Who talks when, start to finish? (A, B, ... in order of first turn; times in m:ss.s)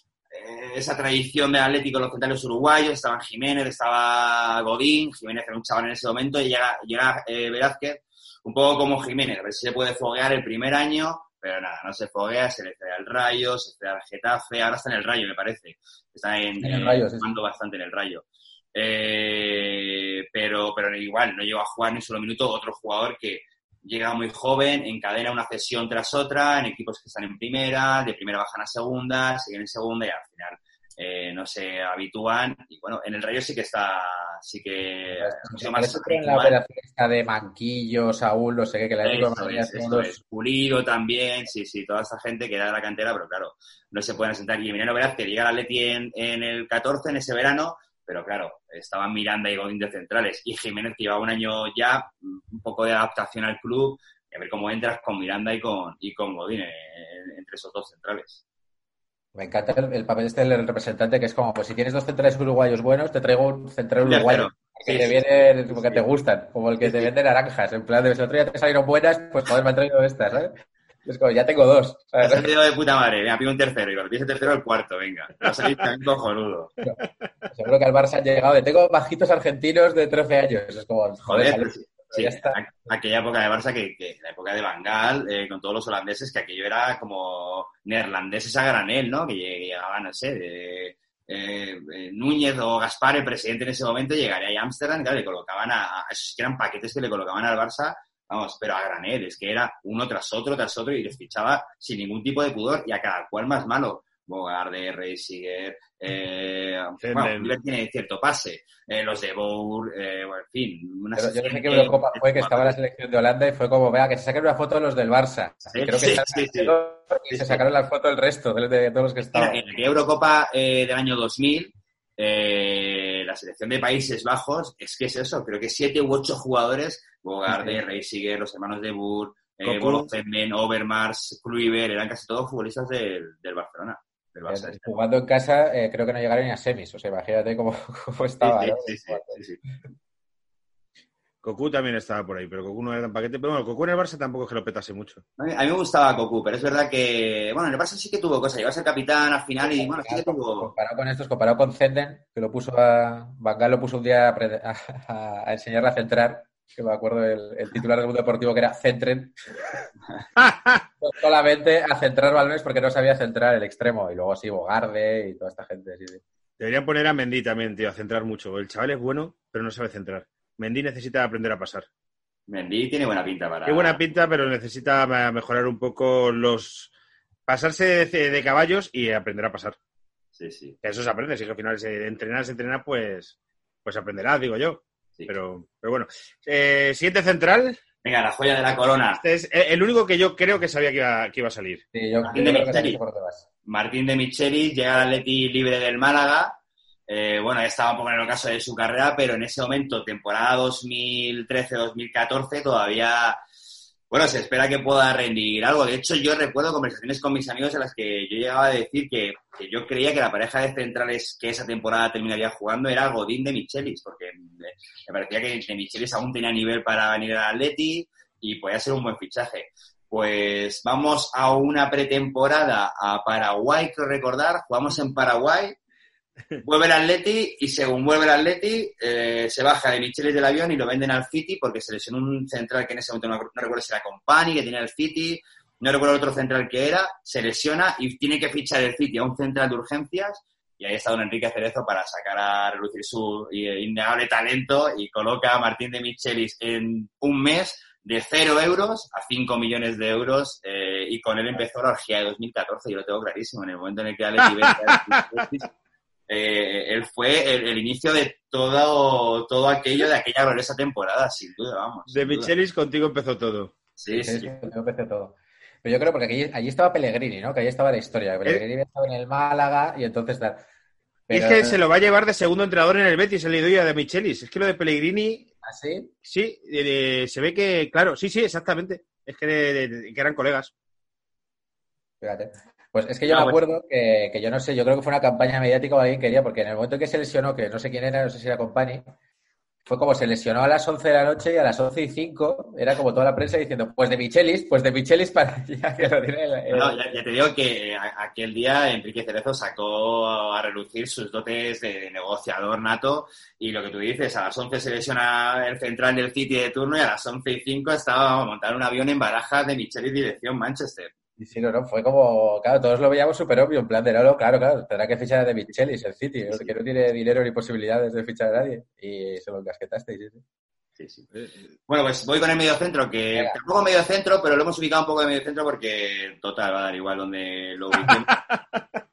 0:00.3-0:36.6 A
0:16.6-0:17.3 B
0:35.2-0:40.2 B
0:39.0-0:58.4 A
0:59.3-1:10.5 B
1:04.0-1:06.0 A
1:06.8-1:07.1 A
1:11.0-1:12.5 B
1:12.2-1:16.7 A
1:15.4-1:15.7 C
1:17.5-1:22.6 B
1:21.2-1:52.8 A
1:47.0-1:47.5 C
1:51.2-1:59.6 B
1:55.7-1:56.7 A
1:57.3-1:57.6 A
1:59.3-2:15.0 A
2:07.5-2:07.8 B
2:09.6-2:10.1 C
2:14.5-2:19.4 B
2:18.4-2:19.6 A
2:21.4-2:25.2 C
2:25.4-2:30.7 A
2:29.6-2:39.4 B
2:40.4-2:40.8 C
2:41.0-2:46.2 B
2:46.6-2:51.9 C
2:52.5-2:54.0 A
2:53.6-2:56.9 C
2:57.5-2:59.8 C
3:00.4-3:00.8 A
3:00.8-3:07.8 C
3:08.0-3:09.2 A
3:09.1-3:11.8 C
3:11.9-3:13.4 B
3:12.2-3:13.0 A
3:13.6-3:16.6 A
3:17.1-3:23.4 A
3:24.1-3:45.8 A
3:46.6-4:15.7 A
4:14.4-4:15.2 C
4:16.3-4:22.5 A
4:22.1-4:23.7 C
4:24.0-4:24.5 A
4:24.1-4:30.6 B
4:31.3-4:31.8 B
4:31.3-4:35.5 C
4:35.6-4:36.1 B
4:36.2-4:40.7 C
4:42.2-4:49.0 B
4:43.3-4:43.6 A
4:49.9-4:57.0 B
4:56.7-5:11.1 A
5:11.4-5:20.4 B
5:21.0-5:21.3 A
5:21.3-5:21.7 C
5:21.9-5:28.3 A
5:28.0-5:29.0 C